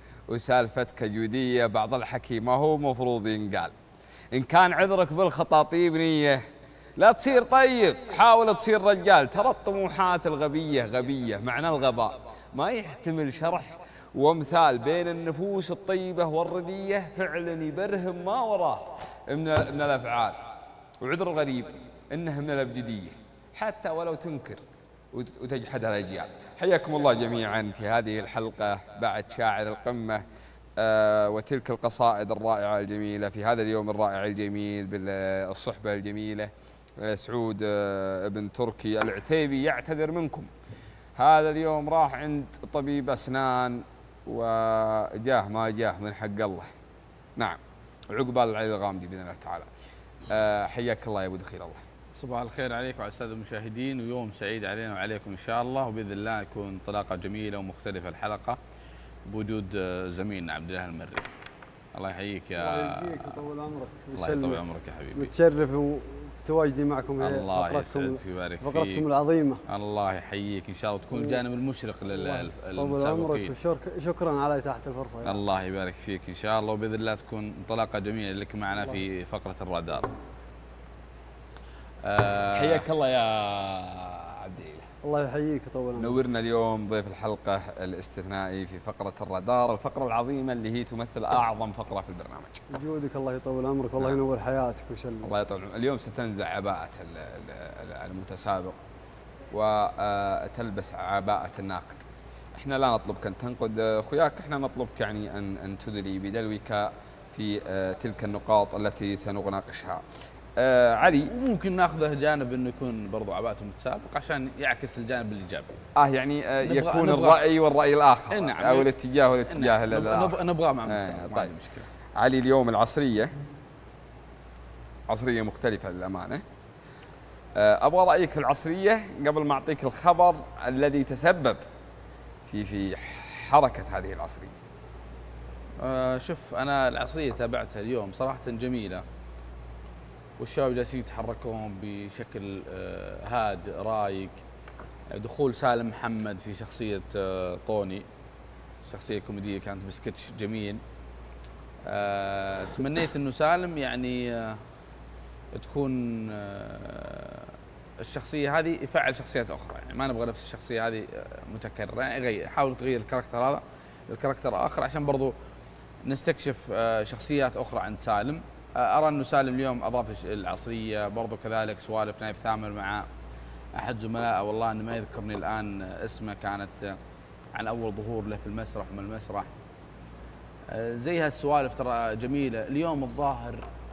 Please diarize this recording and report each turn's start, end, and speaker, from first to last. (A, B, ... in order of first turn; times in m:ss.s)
0:00.3-0:03.7 A
0:04.3-0:06.4 A
0:07.0-0:20.4 A
0:21.0-0:24.6 A
0:25.1-0:30.2 A
0:30.8-0:40.5 A
0:41.2-0:46.7 A
0:47.4-0:49.7 A
0:50.3-0:51.8 A
0:52.1-0:58.6 B
0:59.3-1:01.2 B
1:01.9-1:03.4 B
1:02.6-1:04.6 C
1:04.1-1:05.3 B
1:05.1-1:09.6 C
1:07.2-1:09.0 B
1:09.7-1:13.5 B
1:11.1-1:11.4 C
1:12.1-1:15.4 C
1:15.2-1:20.1 B
1:22.0-1:22.8 B
1:22.5-1:24.9 A
1:25.0-1:26.2 C
1:26.0-1:32.6 A
1:32.7-1:35.3 C
1:35.2-1:38.8 A
1:39.5-1:50.0 A
1:50.6-1:51.3 A
1:51.3-1:55.7 B
1:56.0-2:01.5 A
1:56.6-1:57.4 B
1:58.3-1:58.9 B
1:59.5-2:01.9 B
2:02.1-2:03.3 A
2:05.1-2:06.4 A
2:07.6-2:11.6 A
2:12.5-2:14.5 A
2:15.8-2:19.0 B
2:20.4-2:24.4 B
2:25.1-2:28.0 B
2:28.8-2:30.8 B
2:31.8-2:34.6 B
2:35.5-2:45.3 B
2:46.0-2:53.1 B
2:53.7-2:57.0 B
2:57.5-2:59.5 B
3:00.7-3:03.6 B